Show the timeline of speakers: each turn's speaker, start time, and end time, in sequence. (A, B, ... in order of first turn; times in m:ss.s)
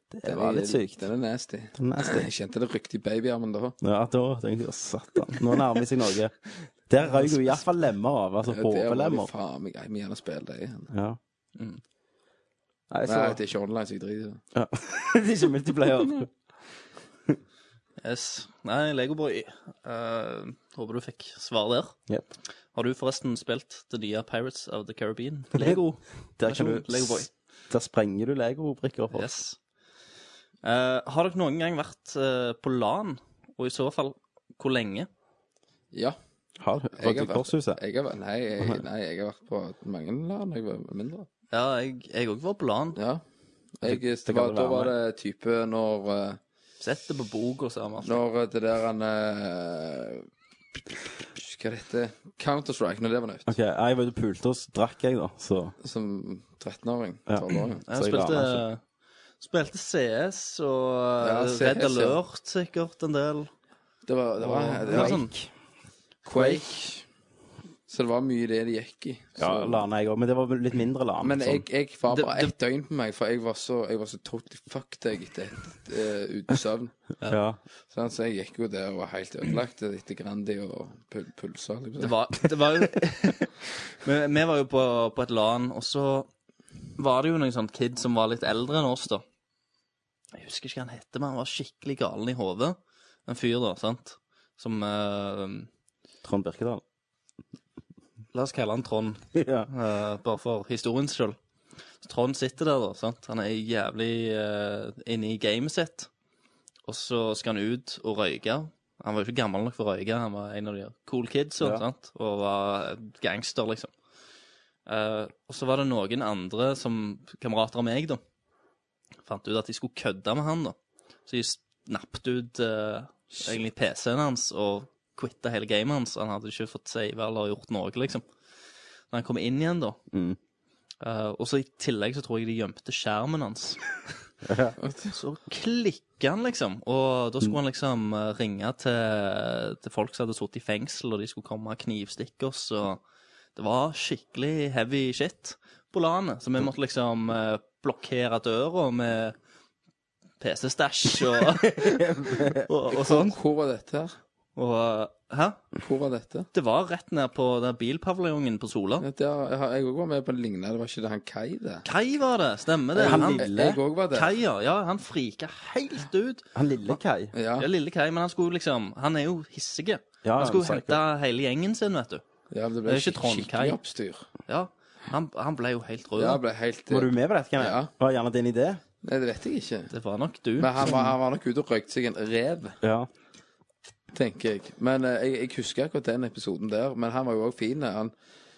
0:00.1-0:01.0 A
0:00.2-0:03.8 B
0:01.8-0:02.3 A
0:03.8-0:06.4 A
0:06.9-0:09.3 A
0:08.5-0:10.9 B
0:10.9-0:11.2 A
0:12.9-0:13.4 A
0:13.0-0:14.4 B
0:14.5-0:16.3 A
0:18.0-0:22.0 C
0:22.7-0:27.3 C
0:26.4-0:29.3 A
0:29.1-0:29.6 C
0:30.6-0:35.1 C
0:36.6-0:37.8 A
0:37.0-0:41.3 B
0:41.5-0:43.0 C
0:43.0-0:43.2 B
0:43.8-0:46.4 B
0:43.8-0:44.9 A
0:46.8-0:48.2 C
0:48.0-0:50.3 B
0:51.4-0:53.5 B
0:53.5-0:55.8 A
0:55.8-0:57.8 B
0:57.3-0:58.7 A
0:57.9-0:58.8 C
0:59.4-1:03.5 C
1:01.2-1:02.2 B
1:04.1-1:05.2 B
1:04.4-1:05.3 C
1:04.9-1:05.5 A
1:06.2-1:07.0 B
1:07.9-1:09.8 B
1:09.4-1:11.6 A
1:11.2-1:16.9 B
1:12.1-1:12.5 C
1:17.3-1:17.6 A
1:17.9-1:22.2 B
1:22.0-1:26.3 C
1:27.0-1:29.2 C
1:30.4-1:35.7 C
1:36.2-1:36.8 A
1:38.3-1:41.4 C
1:39.3-1:39.7 A
1:42.0-1:46.1 C
1:46.9-1:53.9 C
1:54.9-1:58.2 C
1:59.2-2:00.8 C
2:01.3-2:08.3 C
2:03.3-2:03.6 A
2:09.1-2:10.0 C
2:10.1-2:10.4 A
2:11.0-2:13.8 C
2:14.4-2:14.8 A
2:14.8-2:15.1 B
2:15.1-2:23.0 C
2:23.6-2:29.4 C
2:30.4-2:32.0 C
2:31.5-2:32.7 A
2:32.7-2:33.4 C
2:32.9-2:34.1 B
2:34.6-2:35.6 C
2:35.8-2:36.5 B
2:36.5-2:39.1 C
2:39.0-2:41.8 B
2:41.8-2:43.5 C
2:43.0-2:44.3 B
2:43.0-2:43.8 A
2:44.1-2:46.5 C
2:46.6-2:47.3 A
2:47.3-2:47.7 B
2:47.6-2:52.2 C
2:50.2-2:51.0 A
2:52.5-2:54.3 B
2:52.9-2:53.8 C
2:54.5-2:56.4 C
2:56.2-2:57.9 B
2:56.9-2:58.8 A
2:59.0-2:59.9 B
2:59.9-3:01.0 C
3:00.6-3:02.8 B
3:02.8-3:03.1 A
3:04.1-3:08.1 B